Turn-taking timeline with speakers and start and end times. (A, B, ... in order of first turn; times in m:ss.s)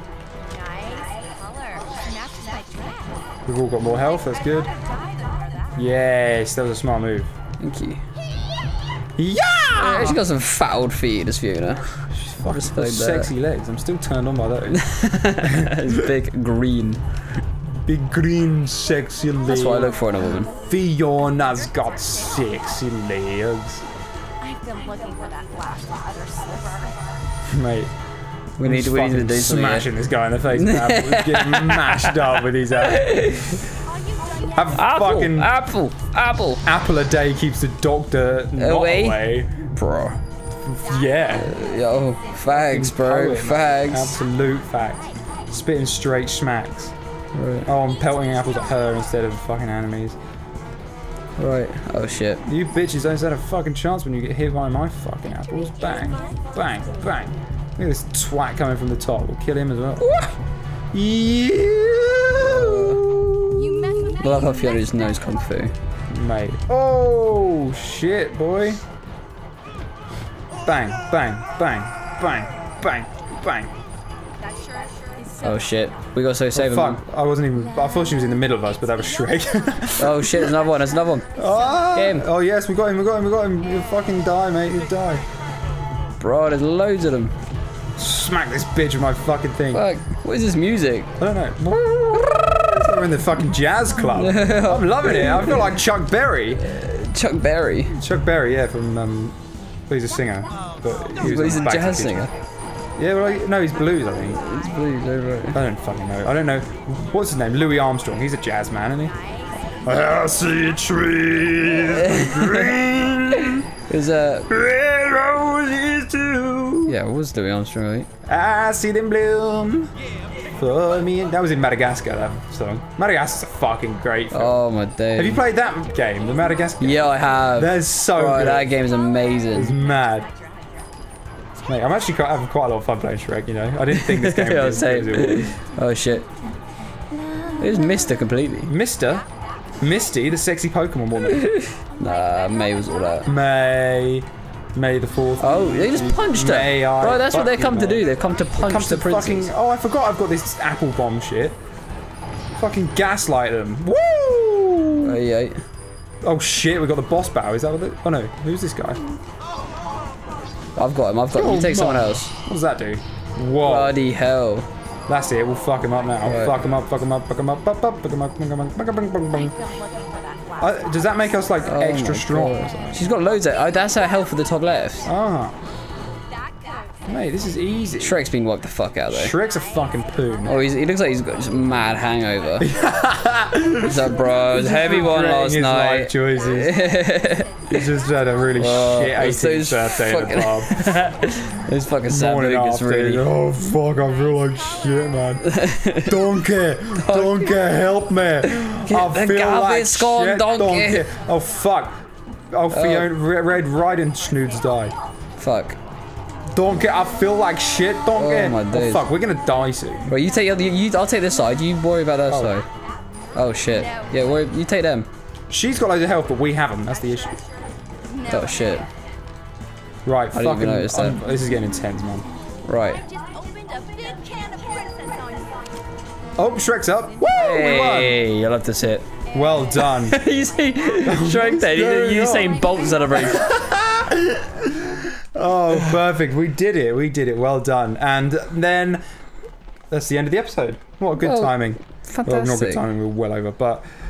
0:03.5-0:04.7 A
0:05.8-0:07.3 A
0:07.6-0:08.0 B
0:09.2-0:10.2 A
0:09.8-0:12.0 B
0:12.1-0:14.9 A
0:12.5-0:13.3 B
0:14.8-0:17.0 B
0:15.4-0:15.8 A
0:17.8-0:20.0 A
0:19.5-0:20.5 B
0:20.6-0:23.8 A
0:25.5-0:26.0 C
0:27.5-0:27.9 A
0:28.6-0:29.9 B
0:28.6-0:33.2 A
0:30.5-0:33.7 B
0:34.5-0:35.5 A
0:34.7-0:36.6 B
0:36.6-0:39.5 A
0:38.6-0:40.2 B
0:40.7-0:41.5 A
0:41.3-0:44.2 B
0:42.5-0:46.9 A
0:47.3-0:47.7 B
0:47.7-0:50.2 A
0:51.4-0:52.4 B
0:52.5-1:00.2 A
1:00.9-1:04.2 A
1:02.4-1:03.0 B
1:04.1-1:05.7 B
1:06.1-1:08.8 A
1:10.6-1:13.7 A
1:15.4-1:17.0 B
1:16.6-1:20.5 A
1:20.0-1:21.3 B
1:21.4-1:25.2 A
1:21.9-1:22.3 B
1:26.2-1:27.3 B
1:28.0-1:29.8 A
1:29.7-1:31.1 B
1:31.2-1:36.6 A
1:34.1-1:35.8 B
1:36.5-1:38.0 B
1:38.0-1:39.4 A
1:39.9-1:42.3 A
1:41.2-1:42.3 B
1:43.0-1:44.4 A
1:44.3-1:45.6 B
1:45.5-1:49.2 A
1:49.8-1:53.6 A
1:52.0-1:52.7 B
1:53.4-1:54.5 B
1:54.5-1:57.0 A
1:56.9-1:58.1 B
1:58.3-1:59.9 A
2:00.6-2:04.6 A
2:04.3-2:05.4 B
2:05.2-2:08.7 A
2:06.8-2:09.8 B
2:09.5-2:10.3 A
2:11.7-2:15.5 A
2:13.9-2:16.3 B
2:17.6-2:18.7 B
2:18.7-2:19.2 A
2:19.8-2:21.5 A
2:21.4-2:23.3 B
2:23.3-2:31.6 A
2:25.4-2:29.5 B
2:32.5-2:35.2 A
2:35.0-2:35.6 B
2:36.2-2:39.0 A
2:40.8-2:42.3 B
2:41.3-2:44.0 A
2:43.6-2:44.7 B
2:45.1-2:49.6 A
2:46.2-2:46.7 B
2:50.6-2:53.0 A
2:51.7-2:55.1 B
2:55.1-2:55.5 A
2:57.1-2:58.2 A
2:58.0-2:59.4 B
2:59.1-3:00.5 A
3:00.4-3:02.7 B
3:02.6-3:06.8 A
3:03.9-3:07.8 B
3:07.7-3:10.8 A
3:08.6-3:13.3 B
3:12.1-3:15.4 A
3:15.5-3:16.1 B
3:16.1-3:22.0 A
3:16.9-3:17.7 B
3:18.6-3:21.1 B
3:22.5-3:25.0 A
3:22.7-3:23.1 B
3:25.4-3:25.8 B
3:26.5-3:30.2 A
3:28.2-3:29.1 B
3:30.1-3:32.7 B
3:32.3-3:32.6 A
3:33.4-3:35.1 B
3:35.5-3:37.4 A
3:38.3-3:38.9 B
3:40.1-3:42.3 A
3:40.3-3:41.2 B
3:42.7-3:43.0 B
3:43.4-3:45.4 C
3:46.4-3:48.2 A
3:47.3-3:49.1 B
3:49.3-3:50.2 A
3:49.8-3:53.5 B
3:51.1-3:59.0 A
3:59.9-4:03.8 A
4:01.2-4:02.8 B